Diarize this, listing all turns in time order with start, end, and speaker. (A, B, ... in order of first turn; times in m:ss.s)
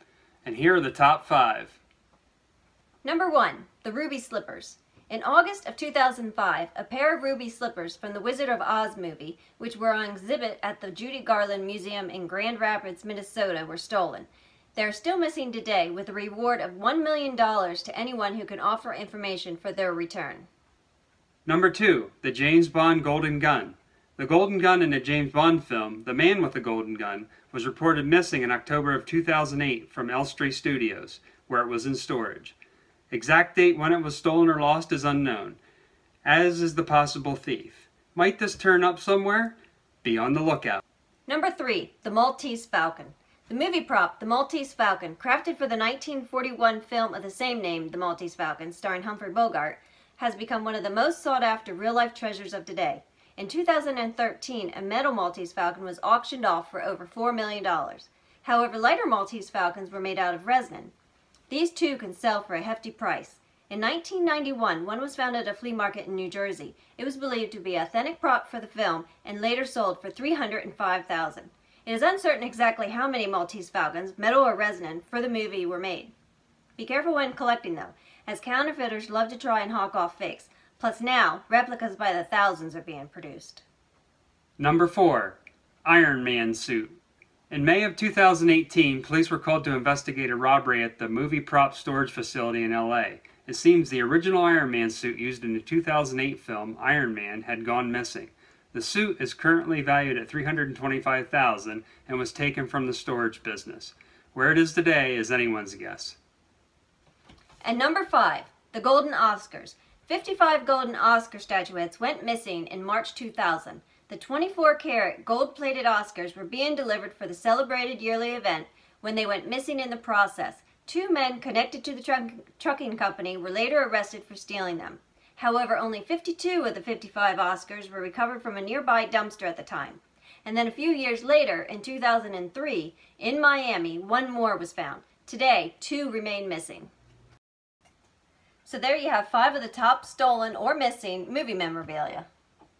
0:00.4-0:01.8 A
0:03.0-0:20.5 B
0:21.4-0:32.5 A
0:33.1-0:35.6 A
0:36.2-0:40.8 A
0:41.3-1:00.9 B
1:01.5-1:16.1 B
1:16.8-1:23.6 B
1:24.6-1:27.0 A
1:27.5-1:46.2 A
1:47.6-2:16.9 B
2:18.6-2:22.3 B